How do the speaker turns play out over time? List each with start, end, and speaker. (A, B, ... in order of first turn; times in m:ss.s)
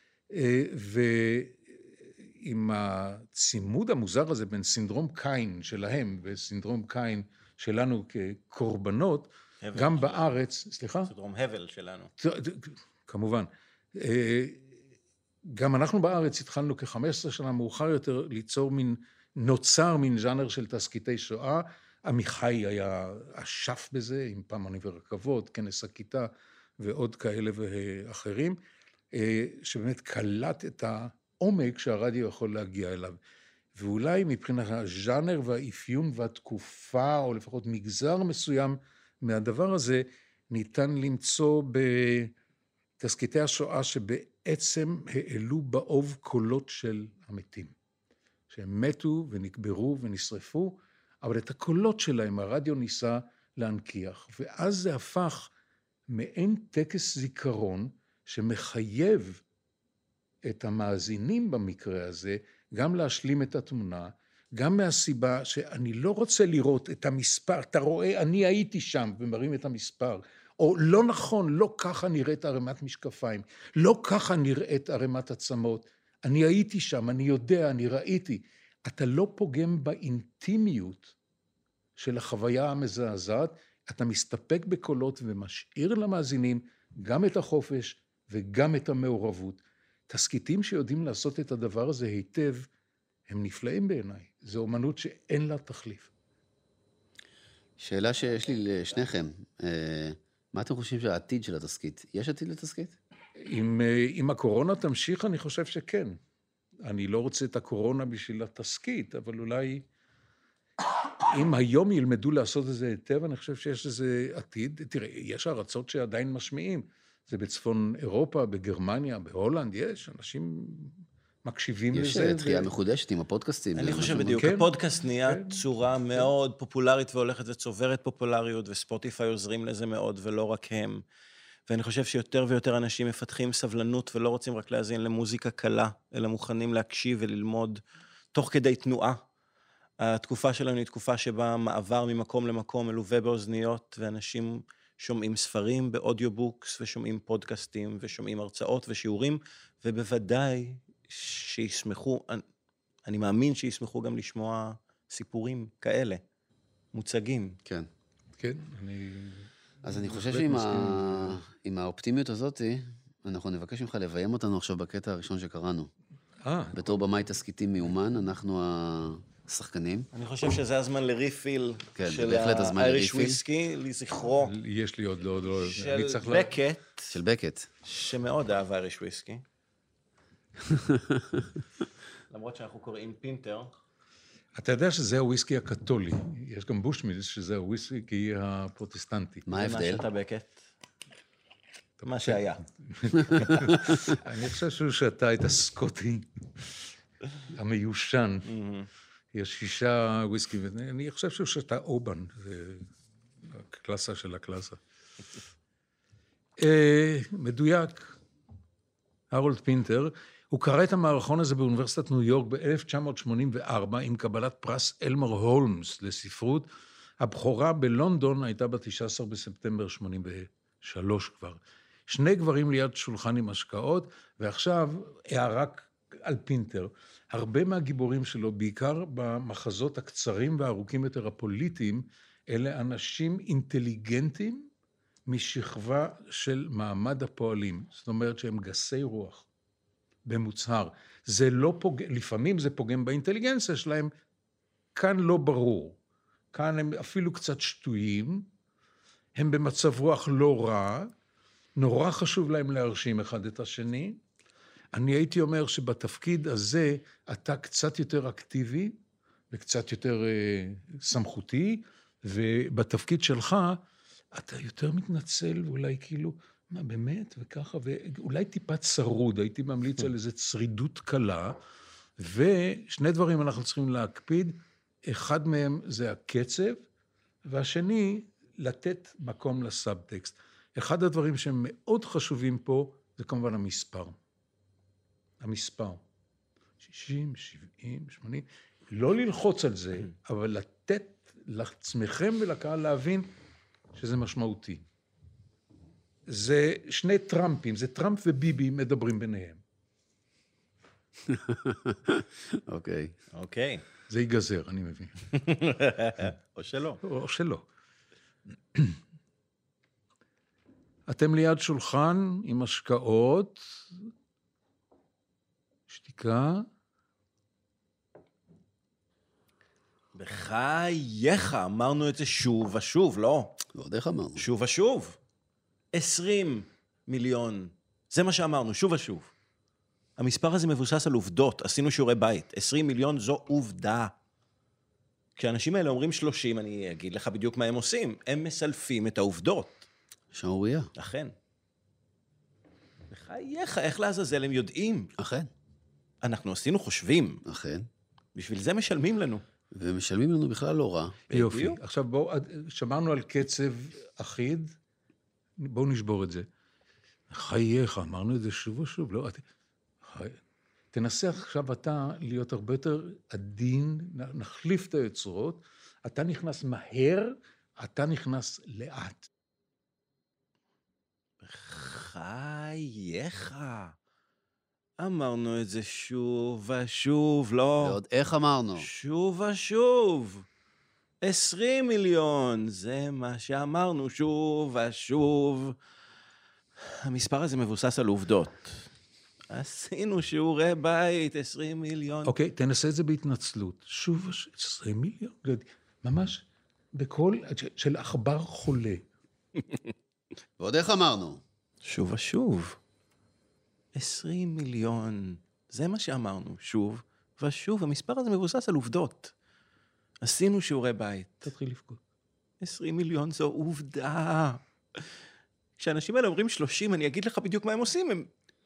0:00.3-0:11.1 A
0:09.6-0:10.3 B
0:11.1-0:12.1 B
0:12.2-0:14.6 A
0:15.4-0:28.6 A
0:29.1-0:33.2 A
0:33.8-0:42.3 A
0:43.0-0:47.7 A
0:48.5-0:55.5 A
0:56.1-0:59.4 A
1:00.4-1:21.1 A
1:22.0-1:32.7 A
1:33.3-1:36.1 A
1:37.8-1:43.0 C
1:43.5-1:46.2 A
1:46.8-1:49.8 A
1:51.3-2:02.7 A
2:01.9-2:04.4 C
2:03.8-2:11.0 B
2:04.2-2:05.6 A
2:11.7-2:17.8 B
2:18.3-2:19.2 B
2:20.0-2:32.4 B
2:33.1-2:36.2 B
2:36.9-2:37.6 B
2:38.4-2:41.4 A
2:39.8-2:45.9 C
2:46.4-2:47.0 A
2:46.7-2:50.1 C
2:50.1-2:54.5 B
2:52.0-2:53.4 C
2:54.4-2:56.6 A
2:55.6-2:57.2 B
2:57.1-2:57.7 C
2:57.8-2:59.4 B
3:00.6-3:01.5 C
3:02.3-3:03.7 B
3:04.6-3:09.5 A
3:09.5-3:10.0 C
3:09.5-3:10.7 B
3:12.0-3:16.8 A
3:12.1-3:12.6 B
3:17.5-3:18.5 A
3:18.5-3:18.9 B
3:19.3-3:22.9 A
3:23.5-3:24.8 A
3:26.6-3:28.2 A
3:29.3-3:36.7 A
3:37.2-3:54.7 A
3:55.3-3:59.5 A
4:00.3-4:04.1 A
4:05.0-4:06.0 A
4:06.5-4:08.5 A
4:09.4-4:11.1 A
4:11.8-4:14.2 A
4:14.9-4:19.0 A
4:19.5-4:23.8 A
4:24.3-4:31.6 A
4:32.2-4:36.8 A
4:37.4-4:44.2 A
4:45.4-4:46.0 A
4:46.8-4:53.3 A
4:54.0-4:54.8 A
4:56.3-4:59.6 A
5:01.2-5:03.2 C
5:03.3-5:03.8 B
5:04.1-5:05.3 A
5:05.3-5:07.0 B
5:07.0-5:07.6 A
5:11.1-5:13.9 A
5:15.9-5:16.7 A
5:20.2-5:23.6 B
5:23.7-5:24.5 C
5:24.4-5:25.2 B
5:25.9-5:29.3 B
5:30.2-5:34.1 B
5:35.4-5:39.9 B
5:40.3-5:40.9 C
5:41.0-5:41.4 B
5:43.1-5:45.1 B
5:45.2-5:45.5 C
5:46.2-5:47.4 B
5:47.4-5:47.9 C
5:48.4-5:49.4 B
5:49.7-5:51.2 C
5:51.3-5:51.8 B
5:51.3-5:54.7 A
5:55.6-5:56.5 A
5:57.3-5:59.4 A
6:00.0-6:00.4 A
6:00.9-6:09.3 A
6:11.4-6:14.0 B
6:15.0-6:18.0 B
6:17.8-6:18.9 C
6:18.8-6:20.4 B
6:21.2-6:25.8 B
6:26.9-6:28.9 B
6:29.5-6:32.3 B
6:32.2-6:39.0 A
6:40.6-6:41.4 C
6:41.8-6:42.8 B
6:43.9-6:49.3 B
6:50.2-6:51.5 B
6:51.5-6:52.0 A
6:52.6-6:54.6 B
6:55.8-6:58.3 B